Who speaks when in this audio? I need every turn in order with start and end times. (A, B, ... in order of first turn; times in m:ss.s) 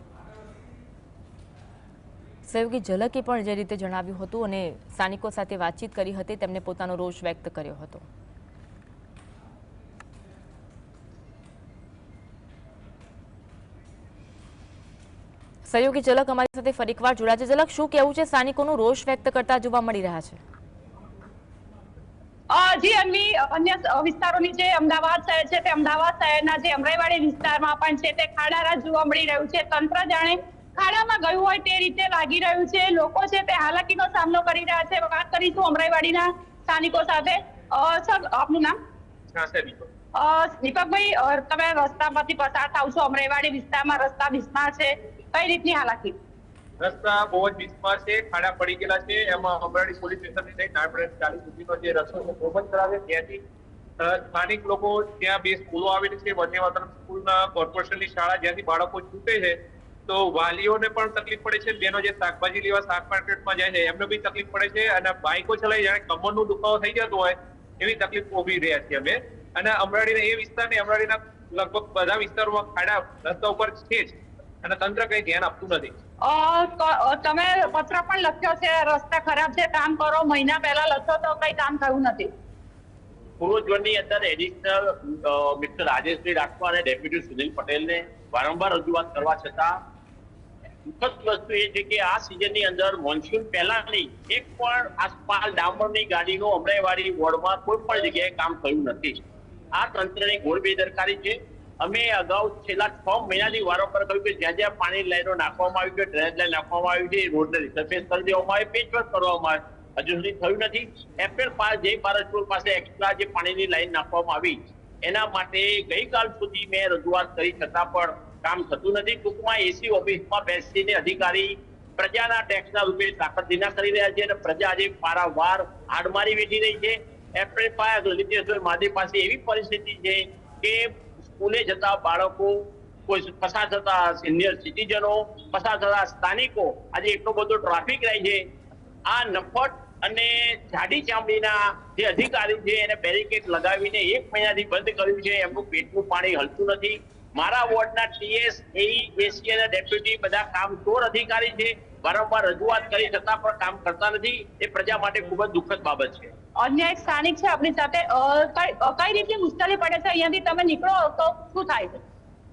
0:02.5-0:08.0 A
0:15.7-0:20.4 A
0:22.5-0:38.8 B
0:39.3-0:39.9 C
0:40.2-0:46.2 B
0:46.8-0:53.4 C
0:54.0-1:15.9 C
1:16.2-1:22.3 B
1:23.4-1:29.8 D
1:30.9-1:39.2 D
1:39.7-2:18.4 D
2:19.1-2:36.3 D
2:36.6-2:42.0 B